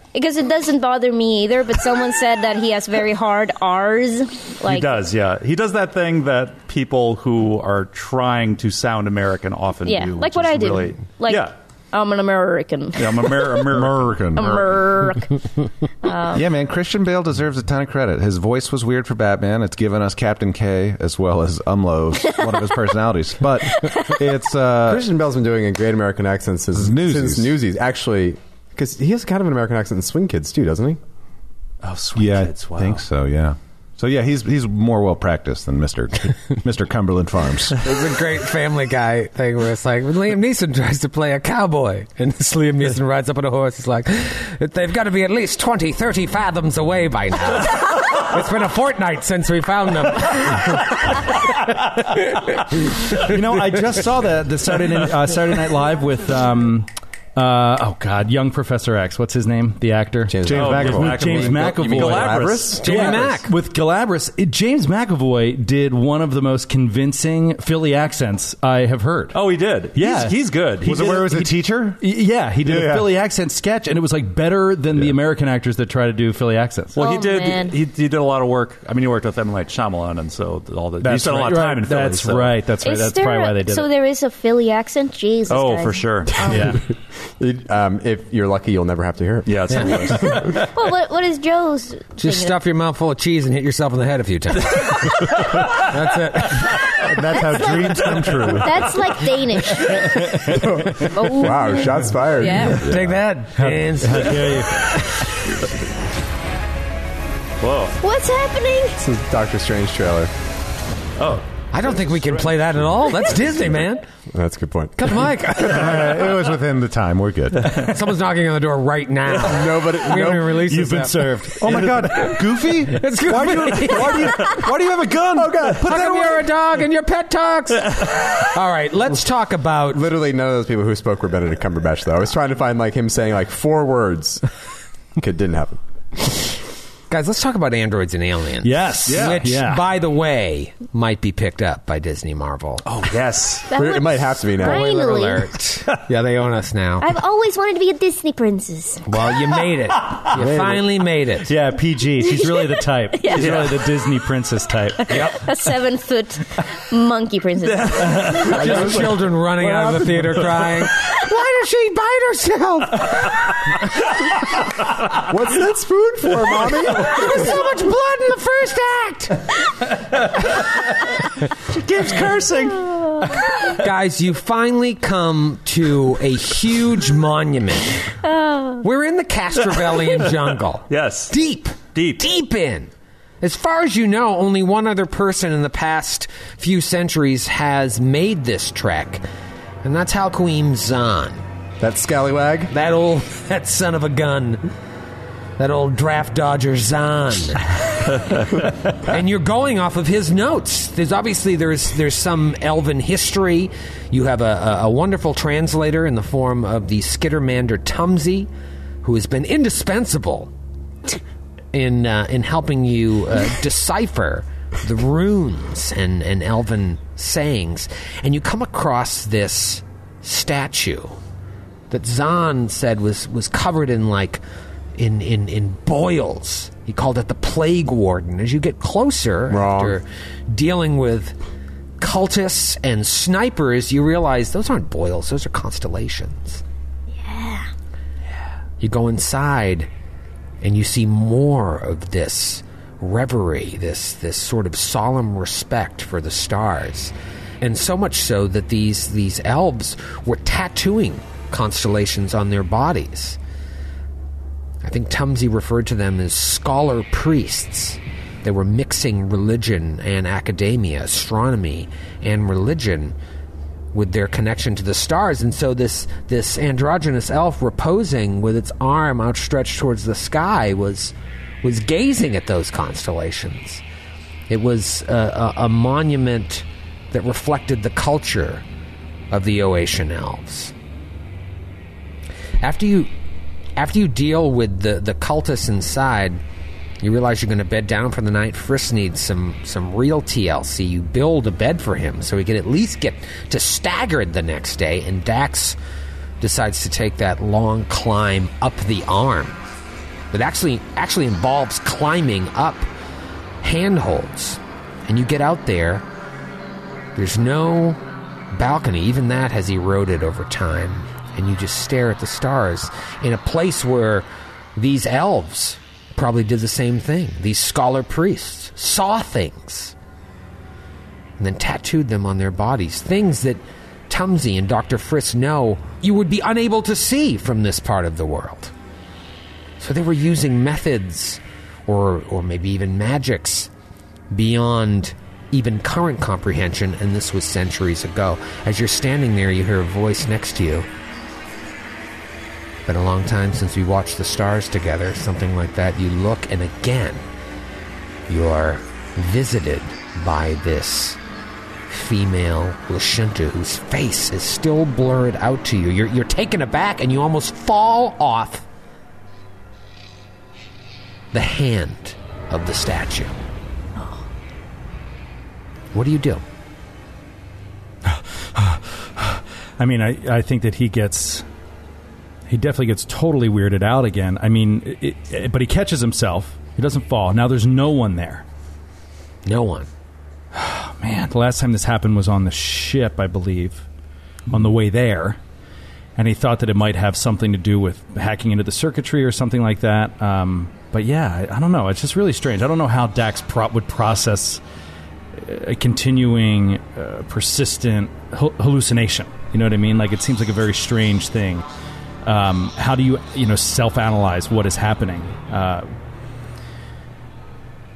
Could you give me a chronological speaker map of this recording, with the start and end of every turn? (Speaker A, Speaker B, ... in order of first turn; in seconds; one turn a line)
Speaker A: 0.1-5.0
Speaker B: 4.7-11.5
Speaker A: 9.8-13.6
Speaker B: 13.0-14.1
Speaker C: 13.7-14.8
Speaker A: 14.3-15.3
Speaker A: 16.0-16.5
Speaker C: 16.3-25.1
Speaker A: 22.3-22.9
Speaker A: 23.5-24.4
Speaker D: 24.9-31.0
Speaker C: 26.8-27.5
Speaker B: 31.8-33.0
Speaker C: 32.2-37.8
Speaker E: 37.8-51.4
Speaker E: 52.0-53.4
Speaker F: 53.1-69.4
Speaker D: 60.3-63.4
Speaker C: 60.5-61.5
Speaker B: 60.5-62.9
Speaker E: 62.8-63.5
Speaker B: 69.3-71.2
Speaker F: 69.9-77.0
Speaker C: 70.8-72.0
Speaker C: 72.6-73.1
Speaker B: 77.0-82.6
Speaker A: 77.0-77.8
Speaker C: 81.0-81.7
Speaker F: 81.4-83.9
Speaker A: 82.8-86.8
Speaker B: 85.5-86.4
Speaker F: 86.5-86.8
Speaker D: 87.4-89.7
Speaker B: 89.5-90.6
Speaker E: 89.7-90.1
Speaker A: 90.0-92.6
Speaker E: 92.2-96.8
Speaker C: 97.1-99.0
Speaker A: 97.3-102.9
Speaker D: 100.5-102.9
Speaker C: 102.9-103.1
Speaker E: 102.9-104.8
Speaker F: 103.6-104.8
Speaker B: 107.6-108.0
Speaker A: 108.0-109.0
Speaker D: 109.0-110.3
Speaker B: 111.2-111.5
Speaker E: 111.7-114.1
Speaker D: 114.3-115.3
Speaker E: 115.0-116.3
Speaker C: 115.6-117.8
Speaker E: 117.7-121.4
Speaker D: 119.4-120.6
Speaker F: 120.3-122.4
Speaker C: 121.6-126.5
Speaker E: 123.0-124.5
Speaker D: 125.4-125.8
Speaker E: 125.8-130.0
Speaker D: 129.9-134.4
Speaker D: 135.2-135.8
Speaker E: 137.1-142.9
Speaker F: 138.6-139.8
Speaker B: 139.1-139.4
Speaker B: 142.9-143.7
Speaker A: 143.7-145.5
Speaker D: 143.7-144.8
Speaker E: 144.6-147.2
Speaker A: 147.0-149.0
Speaker E: 149.1-151.5
Speaker D: 150.3-150.8
Speaker F: 151.4-155.4
Speaker A: 152.2-153.6
Speaker B: 153.3-153.8
Speaker A: 155.0-158.4
Speaker E: 155.1-155.4
Speaker B: 157.6-158.9
Speaker F: 158.0-158.9
Speaker D: 158.5-159.3
Speaker E: 158.5-163.6
Speaker D: 165.2-167.4
Speaker E: 166.9-169.5
Speaker B: 171.6-173.4
Speaker E: 173.7-178.1
Speaker A: 178.2-178.9
Speaker E: 178.8-189.2
Speaker B: 180.9-181.3
Speaker B: 181.9-182.2
Speaker E: 189.8-191.4
Speaker D: 191.8-192.7
Speaker E: 192.7-194.7
Speaker E: 195.6-208.5
Speaker E: 209.0-210.5
Speaker E: 211.7-221.2
Speaker E: 221.9-224.4
Speaker E: 225.0-231.4
Speaker D: 229.5-230.0
Speaker E: 232.0-236.6
Speaker A: 237.2-237.7
Speaker E: 238.8-239.9
Speaker E: 240.6-253.4
Speaker E: 254.8-263.2
Speaker E: 263.9-273.8
Speaker E: 274.5-278.6
Speaker E: 279.3-280.7
Speaker E: 282.6-283.1
Speaker E: 283.8-286.4
Speaker E: 287.0-295.8
Speaker E: 296.4-299.6
Speaker E: 300.3-302.9
Speaker E: 303.6-306.1
Speaker E: 307.2-308.0
Speaker E: 308.5-319.9
Speaker E: 321.4-328.7
Speaker E: 329.8-333.7
Speaker E: 334.3-340.9
Speaker E: 342.9-347.2
Speaker E: 348.3-351.2
Speaker E: 351.9-358.7
Speaker E: 361.3-363.4
Speaker E: 365.9-366.4
Speaker F: 368.1-371.4
Speaker F: 372.5-378.4
Speaker E: 379.5-379.9
Speaker F: 380.5-383.9
Speaker F: 384.5-385.4
Speaker F: 386.2-394.6
Speaker F: 395.4-401.7
Speaker F: 402.2-405.9